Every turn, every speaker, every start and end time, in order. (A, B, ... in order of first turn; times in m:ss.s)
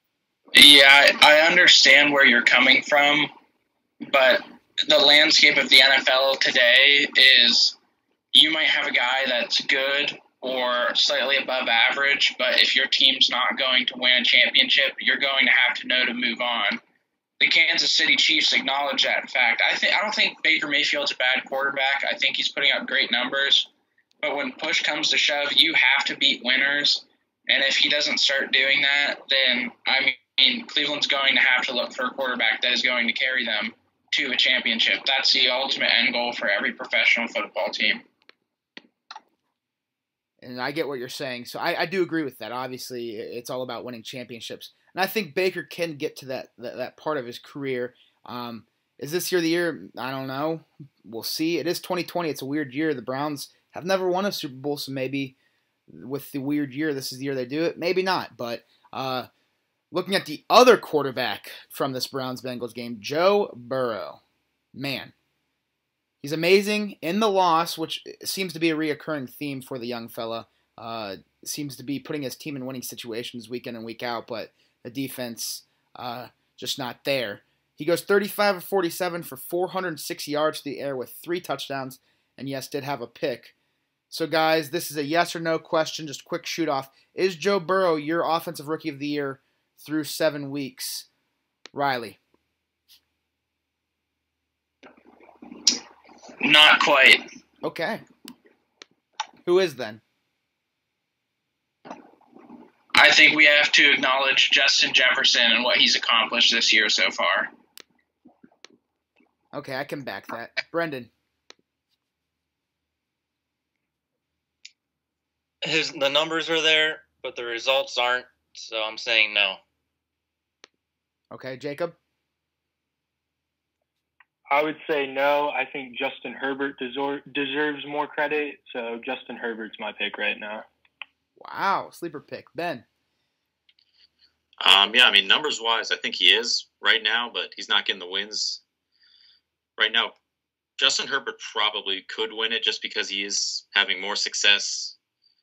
0:00.5-0:03.3 A
0:04.0-0:07.8 A
0:08.3-0:16.8 A
0:17.4-0:23.7 A
0:24.2-0:38.0 A
0:40.4-0:55.4 B
0:55.9-0:59.3 B
0:59.9-1:04.2 B
1:04.8-1:05.1 B
1:06.2-1:23.5 B
1:24.1-1:31.1 B
1:31.7-1:32.2 B
1:36.4-1:37.3 A
1:37.6-1:38.0 B
1:39.4-1:40.0 B
1:42.9-1:47.5 A
1:49.5-1:51.1 B
1:55.6-1:59.6 C
2:01.3-2:02.0 B
2:04.5-2:10.6 D
2:11.4-2:12.8 B
2:14.6-2:18.6 E
2:19.8-2:20.2 E
2:20.8-2:25.0 E